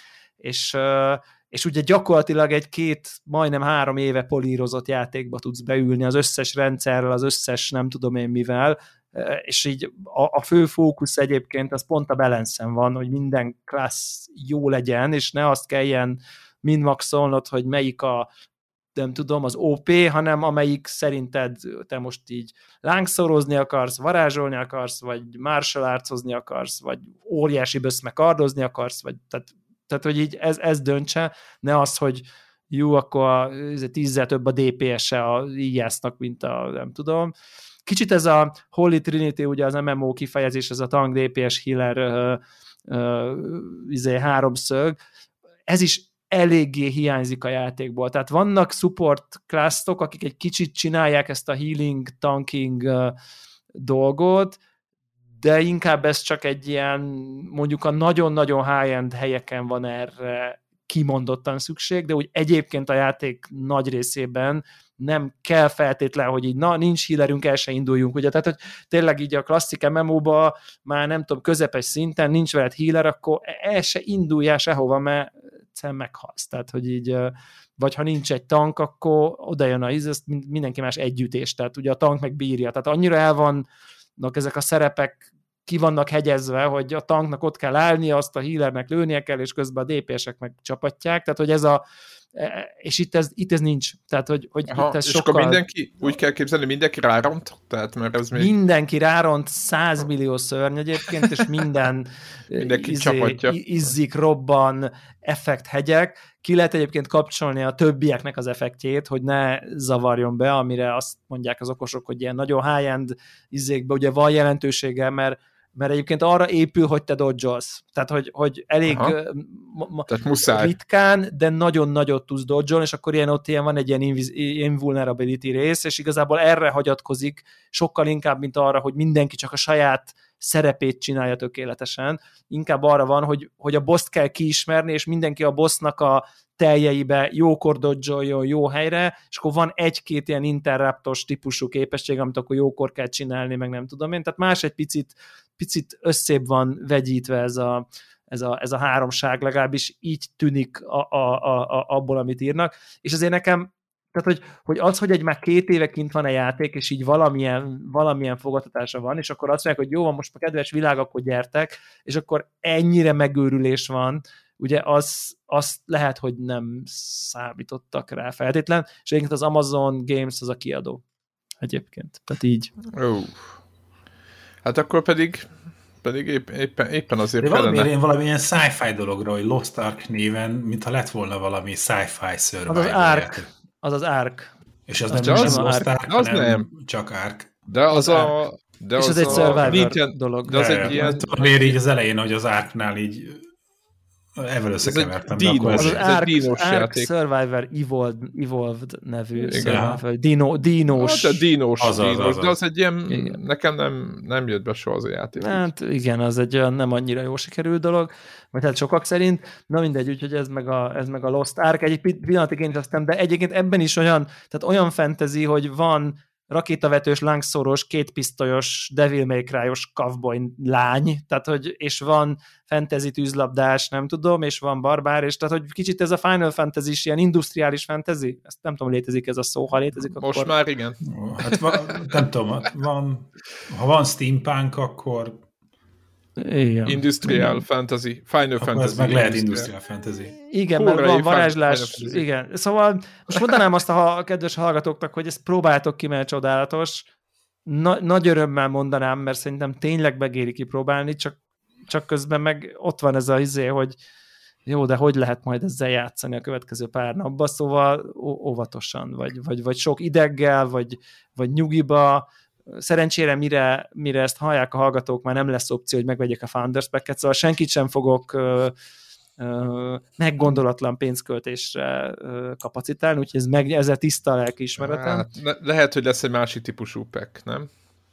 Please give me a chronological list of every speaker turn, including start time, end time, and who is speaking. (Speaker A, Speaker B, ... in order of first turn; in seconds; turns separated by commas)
Speaker A: 0.4-18.3, Speaker A: 18.9-37.3, Speaker A: 37.9-45.0, Speaker A: 45.7-53.1, Speaker A: 53.7-54.6, Speaker A: 55.4-95.6, Speaker B: 94.7-98.5, Speaker A: 98.3-171.0, Speaker B: 102.6-103.6, Speaker B: 118.9-119.1, Speaker B: 120.1-120.7, Speaker A: 171.6-172.7, Speaker B: 172.9-173.6, Speaker B: 174.6-175.5, Speaker B: 176.0-177.9, Speaker C: 177.4-183.5, Speaker A: 182.7-184.5, Speaker C: 184.9-187.6, Speaker A: 185.1-185.9, Speaker B: 185.1-186.7, Speaker B: 187.7-191.8, Speaker A: 187.9-188.3, Speaker A: 189.0-191.0, Speaker C: 189.3-189.8, Speaker C: 190.5-193.5, Speaker C: 194.4-196.0, Speaker B: 194.8-197.1, Speaker A: 195.8-201.4, Speaker B: 199.4-199.8, Speaker C: 199.6-200.0, Speaker B: 200.9-205.6, Speaker C: 201.8-202.6, Speaker A: 203.1-203.4, Speaker A: 205.4-230.5, Speaker B: 230.1-232.0, Speaker C: 231.0-235.4, Speaker A: 236.4-237.6, Speaker B: 236.8-239.7, Speaker C: 238.6-240.3, Speaker A: 240.5-247.1, Speaker B: 240.8-242.2, Speaker A: 247.7-253.9, Speaker A: 254.7-268.7, Speaker A: 269.4-275.3, Speaker B: 274.8-277.7